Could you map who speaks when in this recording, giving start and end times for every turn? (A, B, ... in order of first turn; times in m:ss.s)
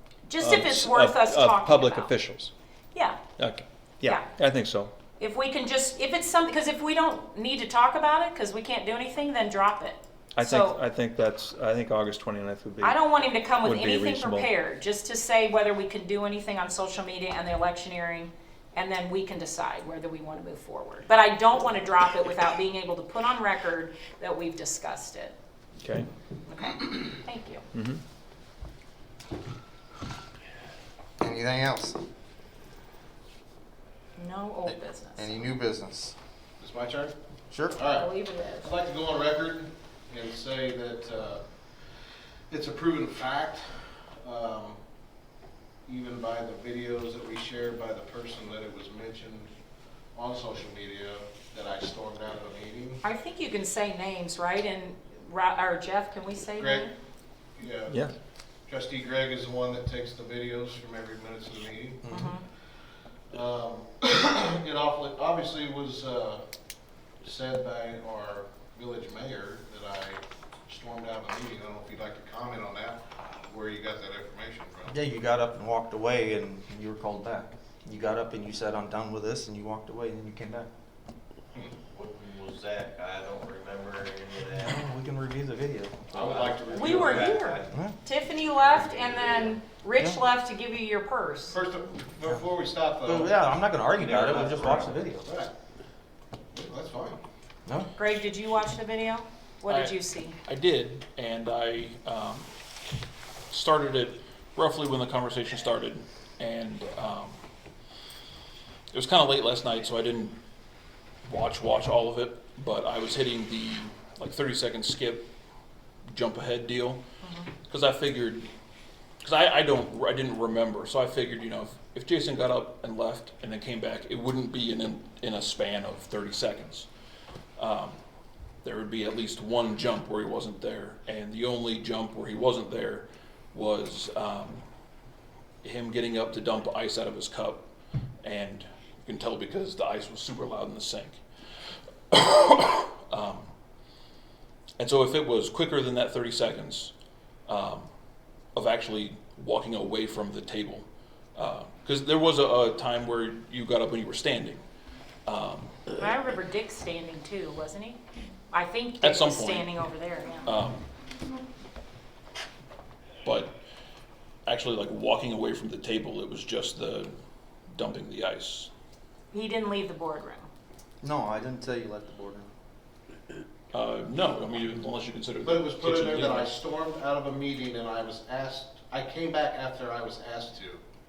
0:00.2-0:02.1 A
0:00.4-0:02.5 B
0:02.9-0:03.2 A
0:03.4-0:04.9 B
0:05.2-0:10.8 A
0:10.3-0:13.0 B
0:12.8-0:25.3 A
0:13.6-0:14.5 B
0:25.8-0:26.1 B
0:26.5-0:27.6 A
0:27.7-0:28.0 B
0:31.2-0:32.0 C
0:34.2-0:35.4 A
0:34.7-0:36.1 C
0:36.6-0:37.1 D
0:37.5-0:37.8 C
0:37.8-0:41.4 D
0:37.8-0:38.7 A
0:42.5-0:44.8 D
0:45.8-0:49.5 D
0:50.1-0:53.0 D
0:53.0-0:56.9 A
0:56.6-0:56.9 D
0:57.6-0:58.1 D
0:58.7-1:02.0 D
1:02.0-1:02.3 C
1:02.1-1:02.4 A
1:03.3-1:06.4 D
1:07.2-1:14.9 D
1:14.9-1:20.7 C
1:21.8-1:24.8 E
1:24.6-1:26.3 C
1:26.1-1:27.7 E
1:26.2-1:27.4 D
1:26.7-1:31.6 A
1:28.6-1:29.6 E
1:31.5-1:33.3 D
1:33.0-1:35.3 C
1:34.0-1:35.5 D
1:36.5-1:37.2 D
1:38.0-1:40.4 A
1:39.7-1:42.5 F
1:43.5-1:47.4 F
1:48.9-1:50.4 F
1:51.2-1:55.3 F
1:56.1-1:57.0 F
1:57.2-1:57.5 A
1:57.7-1:58.5 F
1:59.2-2:06.9 F
2:07.6-2:08.0 F
2:08.6-2:14.6 F
2:15.6-2:17.7 F
2:18.2-2:21.2 F
2:22.1-2:23.5 F
2:24.8-2:26.9 F
2:27.5-2:27.9 F
2:28.5-2:34.6 F
2:35.2-2:35.9 F
2:36.0-2:38.0 A
2:38.5-2:40.5 A
2:39.0-2:39.7 F
2:40.4-2:40.8 F
2:43.2-2:43.5 F
2:44.4-2:47.1 F
2:47.7-2:48.7 F
2:49.3-2:50.5 A
2:51.0-2:52.5 C
2:53.7-2:56.5 F
2:55.4-3:00.8 D